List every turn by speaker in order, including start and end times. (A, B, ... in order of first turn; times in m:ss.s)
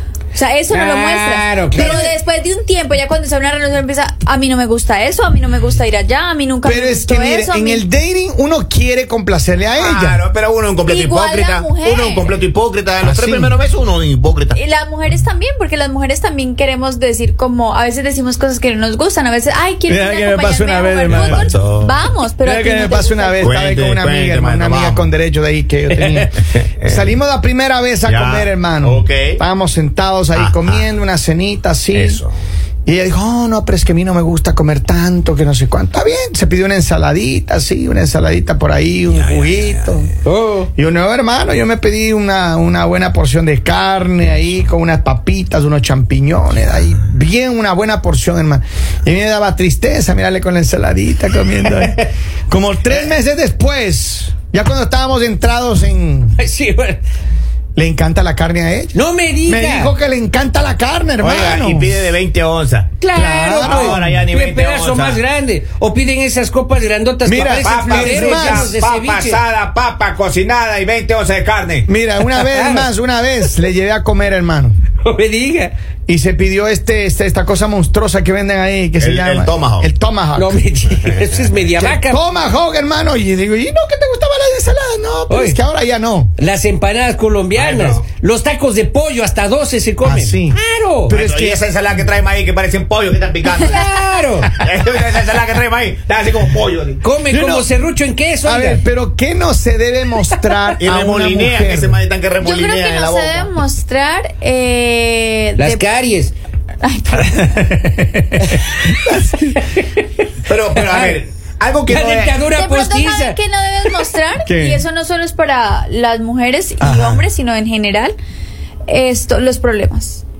0:00.3-0:07.8 A
0:00.7-0:02.0 B
0:01.8-0:02.1 C
0:06.6-0:10.2 D
0:09.8-0:14.6 C
0:10.8-0:12.3 A
0:13.0-0:13.6 D
0:14.5-0:23.5 A
0:19.9-0:21.5 D
0:21.1-0:21.9 C
0:22.4-0:32.2 D
0:23.4-0:25.1 C
0:26.0-0:26.2 B
0:26.5-0:27.1 C
0:28.0-0:29.4 C
0:30.4-0:30.8 C
0:31.9-0:32.3 C
0:32.9-0:40.1 D
0:39.1-0:40.1 C
0:40.2-0:40.7 B
0:40.8-0:56.4 D
0:56.4-0:57.0 B
0:57.8-1:02.1 D
0:58.9-1:00.0 B
1:01.2-1:02.9 C
1:03.0-1:09.4 B
1:03.1-1:04.2 D
1:03.6-1:05.2 C
1:07.2-1:08.7 D
1:07.4-1:11.9 C
1:11.9-1:14.8 D
1:12.2-1:12.9 B
1:15.0-1:15.7 B
1:16.1-1:20.6 D
1:19.0-1:19.9 C
1:20.4-1:22.2 B
1:21.8-1:26.3 D
1:25.3-1:25.6 B
1:26.4-1:31.2 B
1:27.6-1:28.0 C
1:30.0-1:31.6 D
1:31.1-1:33.9 C
1:33.6-1:34.6 B
1:34.5-1:37.0 C
1:37.0-1:38.8 B
1:37.3-1:37.7 D
1:38.4-1:42.0 D
1:40.8-1:43.5 C
1:42.4-1:45.9 A
1:45.6-1:46.3 B
1:46.8-1:47.6 A
1:47.6-1:48.2 D
1:49.0-1:49.6 D
1:50.5-1:52.4 C
1:50.8-1:51.2 B
1:51.9-1:53.4 B
1:52.6-1:58.2 A
1:54.4-1:54.8 D
1:56.8-1:57.3 D
1:58.9-2:00.2 A